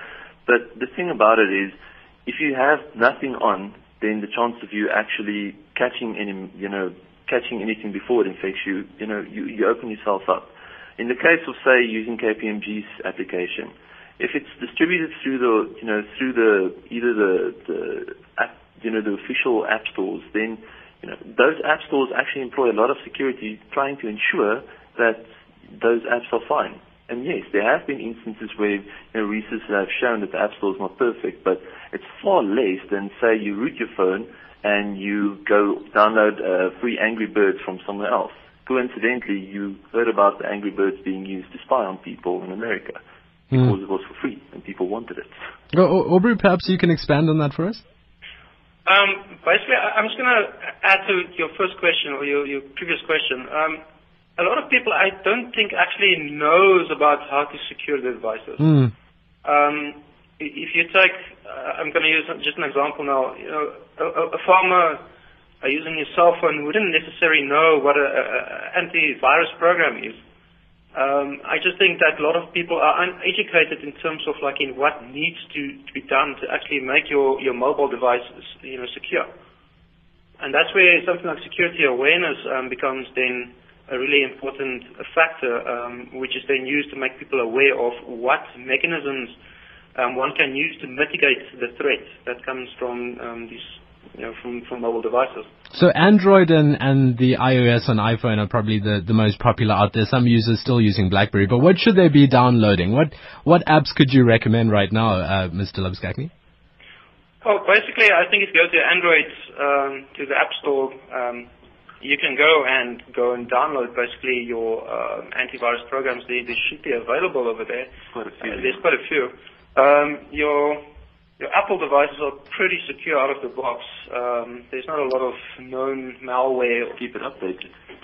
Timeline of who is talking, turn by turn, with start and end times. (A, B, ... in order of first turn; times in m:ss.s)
0:00.5-0:43.0 A
0:43.5-0:45.4 A
0:45.7-0:47.8 B
0:48.9-0:53.8 C
0:54.4-0:58.8 C
0:58.6-0:58.9 B
0:59.4-1:05.0 C
1:05.6-1:10.2 C
1:11.0-1:19.3 C
1:20.4-1:29.4 C
1:30.0-1:35.5 C
1:35.7-1:46.3 B
1:47.4-1:51.5 C
1:52.0-2:00.8 C
1:58.1-1:58.8 A
2:01.4-2:07.0 C
2:07.0-2:07.7 A